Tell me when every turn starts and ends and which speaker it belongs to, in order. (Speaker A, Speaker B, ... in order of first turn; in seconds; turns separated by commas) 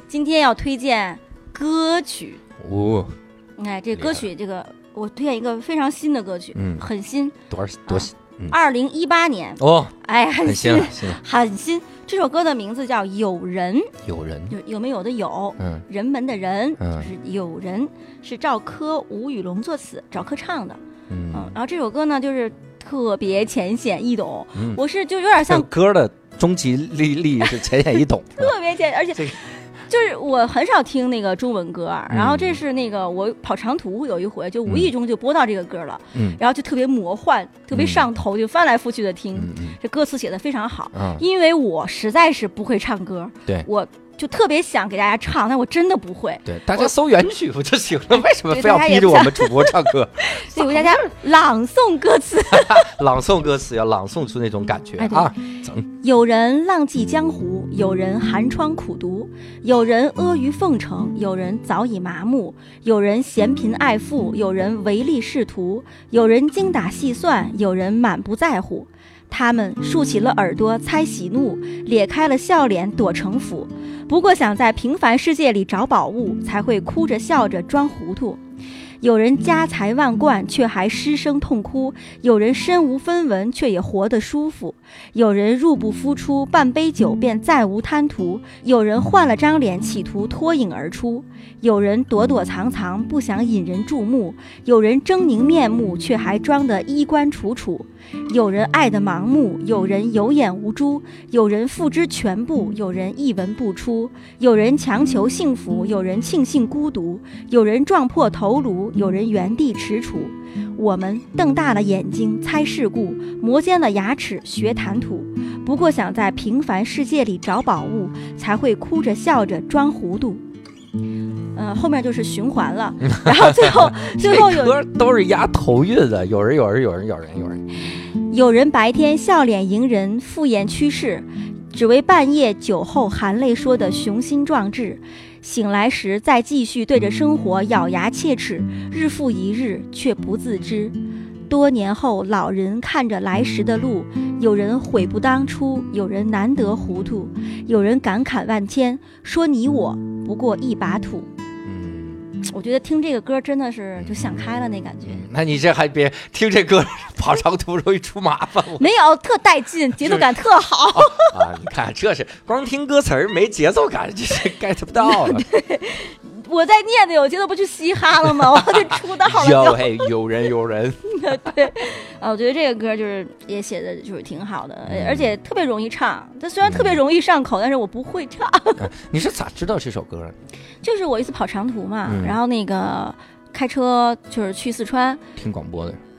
Speaker A: 0.1-2.4, Speaker B: 2.6-3.1, Speaker A: 3.6-7.3, Speaker B: 3.9-4.3, Speaker B: 6.5-6.9, Speaker B: 7.5-8.6, Speaker A: 7.9-13.9, Speaker B: 9.6-11.2, Speaker B: 14.0-14.6, Speaker A: 14.5-20.8, Speaker B: 15.6-15.8, Speaker B: 16.8-17.1, Speaker B: 21.1-21.5, Speaker A: 21.3-25.7, Speaker B: 24.5-24.8, Speaker B: 25.4-28.5, Speaker A: 28.4-46.9, Speaker B: 32.1-32.6, Speaker B: 36.1-36.4, Speaker B: 37.7-38.1, Speaker B: 39.4-39.8, Speaker B: 40.9-41.2, Speaker B: 46.5-51.1, Speaker A: 48.4-52.9, Speaker B: 52.5-55.9, Speaker A: 55.0-55.3, Speaker A: 56.0-78.4, Speaker A: 79.0-120.4, Speaker A: 121.5-124.8, Speaker B: 123.2-127.7, Speaker A: 128.3-141.0, Speaker A: 141.5-151.3, Speaker B: 151.7-152.2, Speaker A: 152.4-155.2, Speaker B: 154.0-154.4, Speaker B: 155.1-158.9, Speaker A: 158.8-161.4, Speaker B: 160.0-165.4, Speaker A: 165.0-170.1, Speaker B: 168.7-171.4, Speaker A: 171.1-178.9, Speaker B: 174.9-175.4, Speaker B: 176.6-177.0, Speaker B: 178.8-180.4, Speaker A: 180.8-185.2, Speaker B: 182.1-182.4, Speaker B: 185.4-186.0